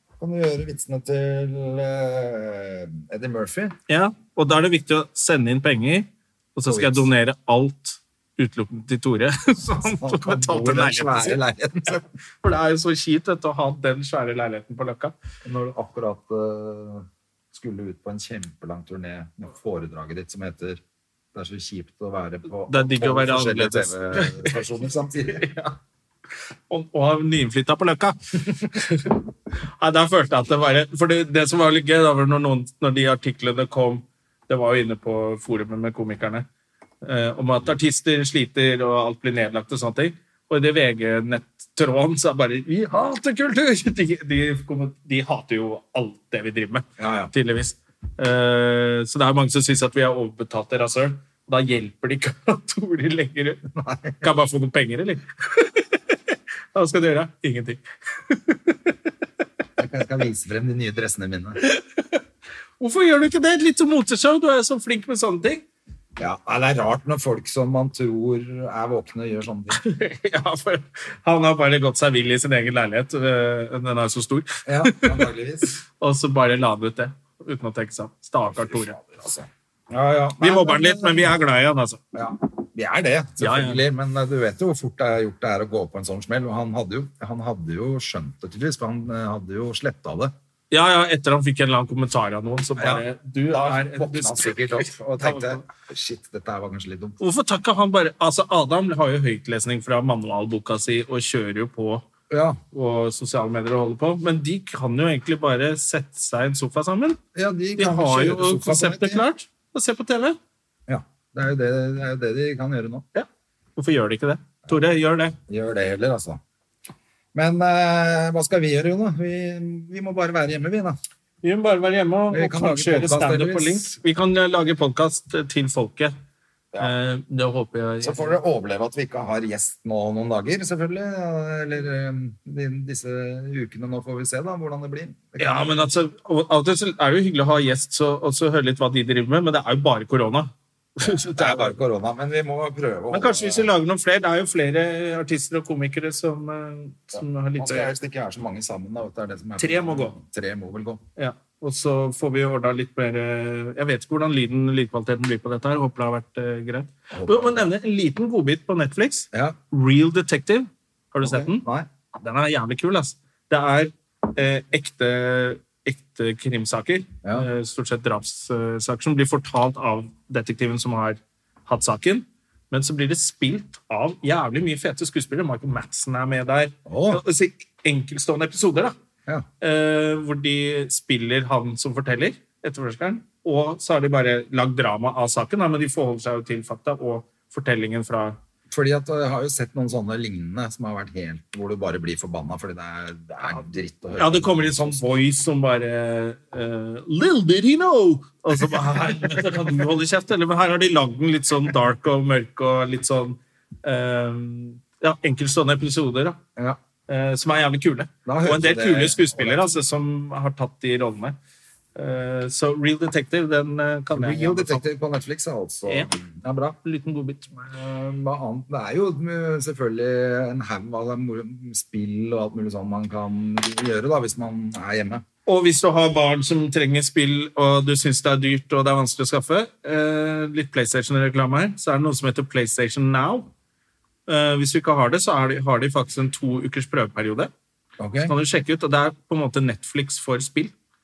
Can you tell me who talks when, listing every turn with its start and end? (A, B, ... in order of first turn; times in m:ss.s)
0:00.2-0:03.7 A
0:03.9-0:11.4 B
0:06.6-0:07.1 A
0:09.8-0:12.0 A
0:12.4-0:15.1 B
0:15.4-0:20.8 A
0:21.3-0:25.5 A
0:22.6-0:24.6 B
0:25.3-0:25.8 B
0:26.7-0:29.2 B
0:29.8-0:36.4 B
0:37.0-0:53.6 B
0:47.0-0:47.3 A
0:53.7-0:54.3 A
0:54.2-0:59.0 B
0:59.8-1:01.6 A
1:01.6-1:02.2 B
1:02.8-1:05.6 B
1:06.2-1:09.8 A
1:09.7-1:19.0 B
1:14.6-1:15.7 A
1:18.5-1:21.3 A
1:20.4-1:22.0 B
1:22.1-1:30.3 A
1:23.4-1:23.8 B
1:30.7-1:35.6 B
1:32.8-1:37.2 A
1:37.2-1:42.0 B
1:42.3-1:42.6 A
1:42.7-1:47.2 B
1:47.3-1:49.2 A
1:47.8-1:50.4 B
1:50.9-1:53.0 A
1:53.1-1:55.4 B
1:55.5-1:56.4 A
1:57.3-2:01.0 A
2:01.4-2:06.1 B
2:02.3-2:03.8 A
2:06.8-2:08.4 B
2:08.0-2:15.8 A
2:15.4-2:21.7 B
2:21.0-2:23.7 A
2:23.1-2:27.9 B
2:27.1-2:31.0 A
2:29.6-2:30.2 B
2:31.2-2:41.6 B
2:37.1-2:37.7 A
2:39.3-2:39.6 A
2:41.2-2:41.9 A
2:42.1-2:58.9 B
2:56.8-2:57.2 A
2:59.6-3:08.4 B
3:08.7-3:15.0 A
3:14.2-3:26.4 B
3:18.6-3:19.6 A
3:27.1-3:31.4 B
3:28.2-3:29.7 A
3:31.9-3:34.8 B
3:34.1-3:36.8 A
3:36.8-3:37.5 B
3:37.5-3:45.2 A
3:45.4-3:53.5 B
3:54.3-3:57.5 B
3:58.0-3:58.3 A
3:58.2-4:00.7 B